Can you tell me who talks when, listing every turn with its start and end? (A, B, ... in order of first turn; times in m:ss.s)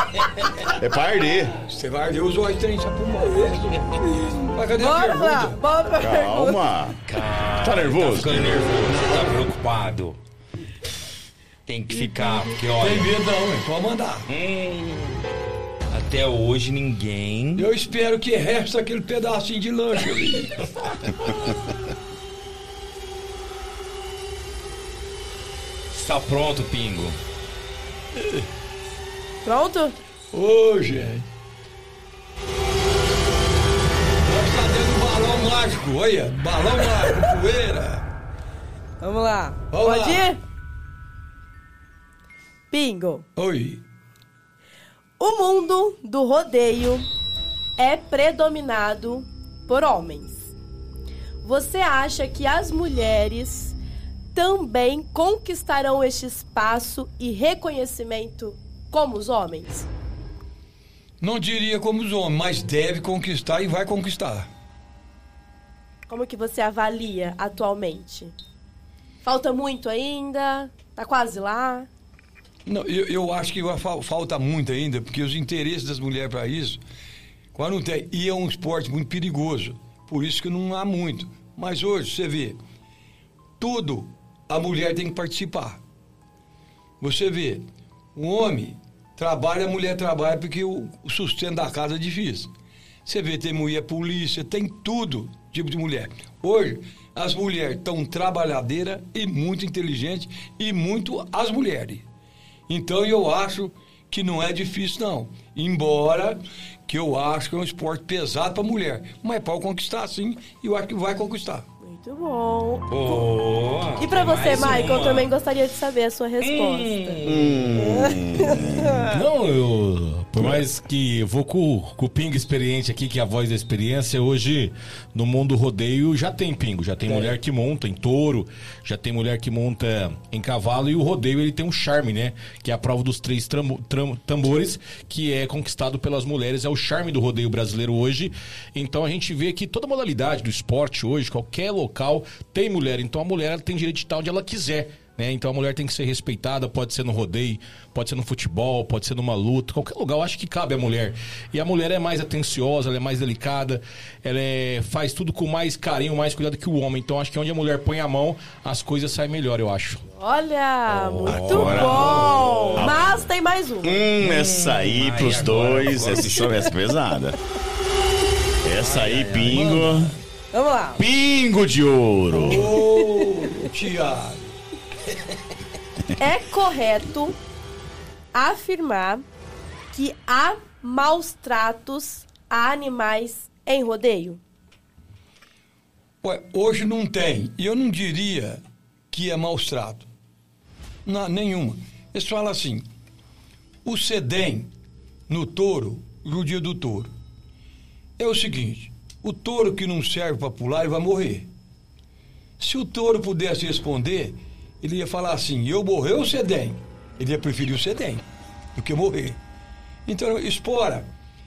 0:00.7-0:01.6 A
0:01.7-0:04.0 B
0:04.5-0:05.6 B
0:04.8-0:06.6 C
0:06.0-0:07.0 A
0:07.1-0:10.2 D
0:07.6-0:08.6 A
0:08.7-0:09.4 B
0:11.7-0:13.1 D
0:11.9-0:12.6 C
0:12.8-0:14.3 B
0:14.3-0:15.2 D
0:15.9-0:17.7 D
0:17.6-0:20.6 B
0:25.9-0:27.2 D
0:28.2-0:28.5 B
0:29.4-0:30.0 C
0:30.3-0:31.3 B
0:34.2-0:38.1 B
0:39.0-0:40.4 C
0:39.7-0:40.3 B
0:42.7-0:43.2 C
0:43.4-0:43.8 B
0:45.2-0:47.1 C
0:47.8-0:50.5 C
0:51.4-0:53.8 C
0:54.4-0:59.9 C
1:01.2-1:04.5 B
1:06.1-1:08.3 C
1:09.2-1:11.9 C
1:12.7-1:16.8 B
1:17.5-1:22.6 B
1:23.6-1:25.8 B
1:27.0-1:32.5 B
1:33.0-1:42.1 B
1:42.7-1:51.7 B
1:51.8-1:53.3 C
1:52.9-1:55.3 D
1:54.0-1:59.2 C
1:56.4-1:57.8 D
1:57.2-1:59.1 A
1:59.1-2:40.1 E
2:07.1-2:07.4 D
2:40.2-2:44.1 C
2:41.2-2:43.3 A
2:41.3-2:43.0 D
2:41.5-2:42.0 E
2:43.8-2:47.4 A
2:44.2-2:46.5 D
2:46.3-2:46.7 C
2:48.6-2:50.2 A
2:48.8-2:50.0 D
2:49.5-2:49.8 B
2:50.5-2:51.0 C
2:51.0-2:52.8 A
2:52.4-2:54.6 B
2:53.0-2:53.7 C
2:56.2-2:57.4 C
2:58.3-2:59.2 C
2:59.9-3:04.4 C
3:06.2-3:10.1 B
3:11.1-3:12.9 B
3:13.8-3:14.7 B
3:15.3-3:17.1 B
3:18.2-3:21.5 B
3:22.6-3:28.2 B
3:28.8-3:29.4 B
3:30.1-3:31.1 B